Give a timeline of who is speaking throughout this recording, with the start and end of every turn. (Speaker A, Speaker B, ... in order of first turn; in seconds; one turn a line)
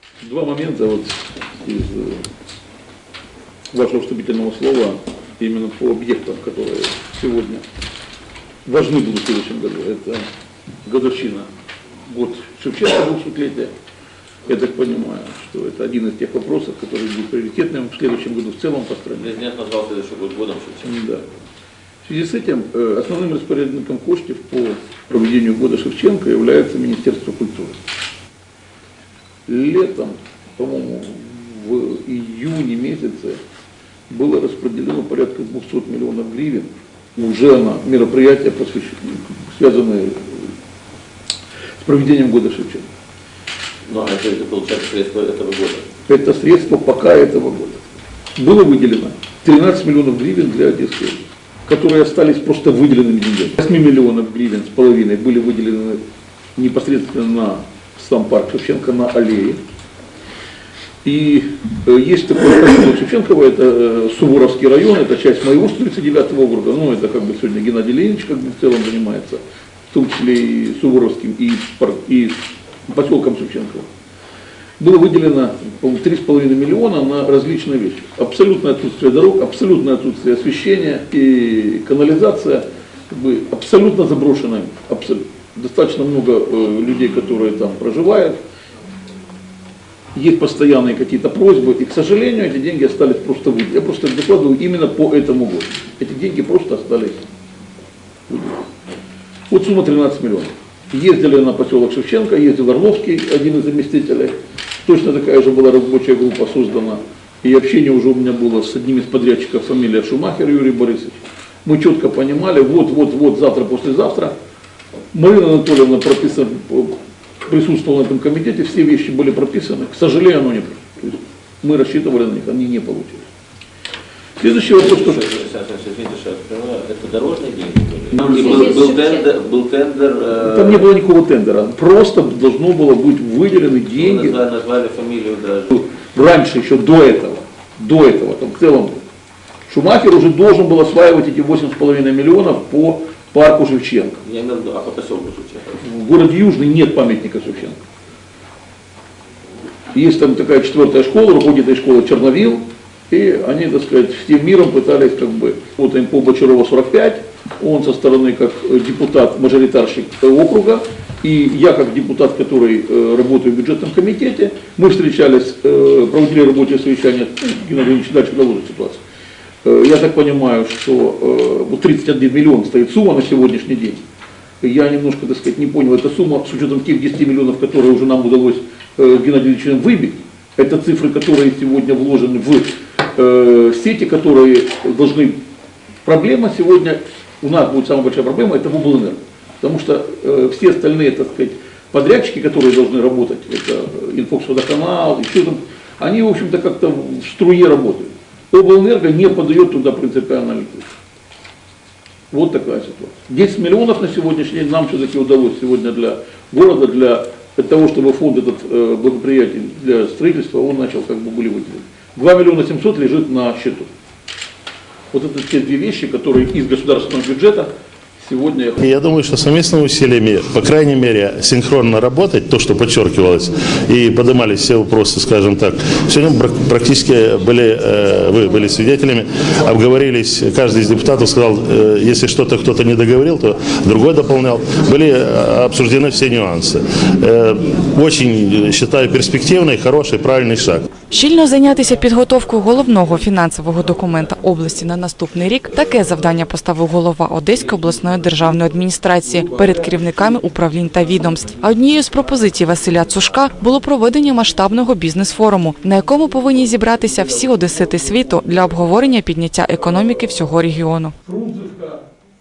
Speaker A: 0.2-2.2
Speaker A: 3.7-7.6
Speaker A: 8.7-10.3
Speaker A: 10.8-11.5
Speaker A: 12.1-13.7
Speaker A: 14.5-19.3
Speaker B: 19.1-20.9
Speaker A: 20.8-21.2
Speaker A: 22.0-27.8
Speaker A: 29.5-33.4
Speaker A: 34.1-40.5
Speaker A: 41.8-42.9
Speaker B: 43.9-45.9
Speaker A: 46.1-47.8
Speaker A: 48.4-56.0
Speaker A: 56.5-59.6
Speaker A: 61.0-73.9
Speaker A: 74.8-88.4
Speaker A: 90.1-97.2
Speaker A: 98.3-98.7
Speaker A: 99.5-114.3
Speaker A: 115.1-123.3
Speaker A: 124.4-125.2
Speaker B: 124.7-130.8
Speaker A: 128.1-128.8
Speaker C: 128.4-129.2
Speaker A: 130.4-134.4
Speaker B: 133.9-135.8
Speaker A: 135.7-139.0
Speaker A: 139.7-144.2
Speaker B: 144.2-145.8
Speaker A: 145.8-147.8
Speaker A: 149.9-169.0
Speaker A: 169.6-174.0
Speaker A: 174.6-185.4
Speaker A: 186.0-200.9
Speaker A: 202.3-213.9
Speaker A: 215.1-218.8
Speaker D: 218.8-240.8
Speaker C: 241.1-261.1
Speaker A: 261.2-262.0